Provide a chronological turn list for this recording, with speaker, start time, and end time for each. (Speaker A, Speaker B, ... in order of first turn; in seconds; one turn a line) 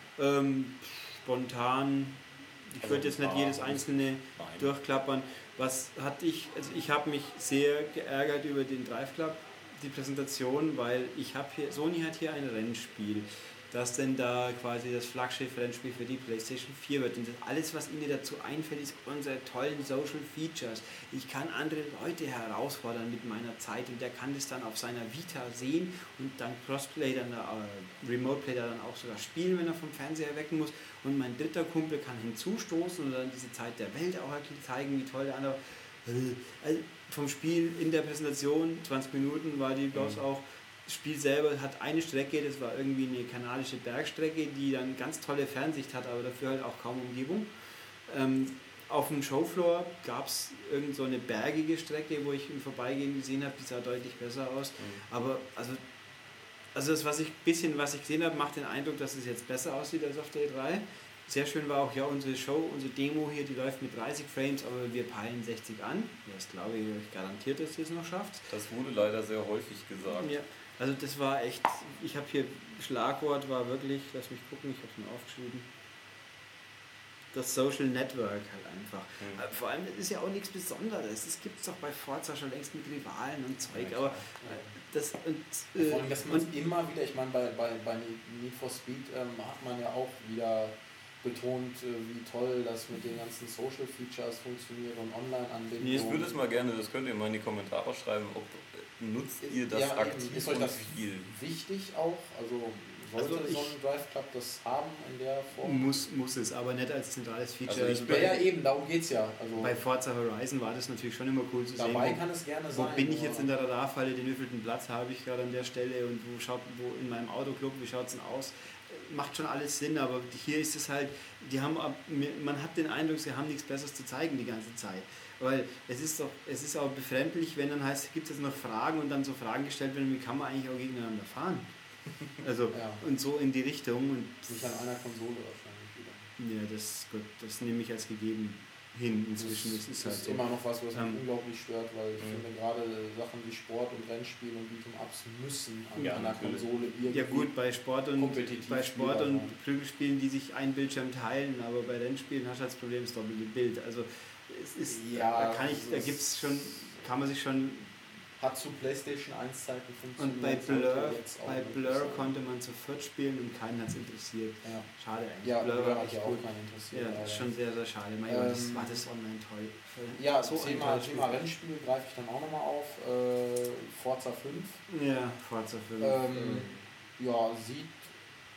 Speaker A: 0.2-55.8
Speaker B: 2.8-4.7
Speaker B: 39.9-40.2
Speaker B: 54.8-55.0
Speaker A: 56.7-68.5
Speaker B: 68.5-70.3
Speaker A: 70.2-75.7
Speaker A: 77.3-86.5
Speaker B: 83.7-84.2
Speaker C: 84.4-84.7
Speaker C: 85.8-96.4
Speaker A: 95.8-96.1
Speaker B: 95.9-101.3
Speaker C: 99.4-105.9
Speaker A: 103.2-103.7
Speaker A: 105.6-108.5
Speaker B: 107.7-108.3
Speaker C: 108.1-109.8
Speaker A: 109.6-131.7
Speaker C: 111.7-113.5
Speaker A: 132.4-134.7
Speaker C: 132.7-133.0
Speaker C: 134.5-136.3
Speaker A: 136.4-141.2
Speaker C: 139.4-147.5
Speaker B: 142.2-142.4
Speaker B: 145.9-146.7
Speaker A: 147.1-157.9
Speaker C: 148.2-149.5
Speaker C: 154.9-156.9
Speaker C: 158.4-162.3
Speaker A: 160.2-171.4
Speaker C: 165.4-167.5
Speaker C: 168.3-169.0
Speaker C: 170.2-174.8
Speaker A: 174.9-176.7
Speaker C: 176.0-178.1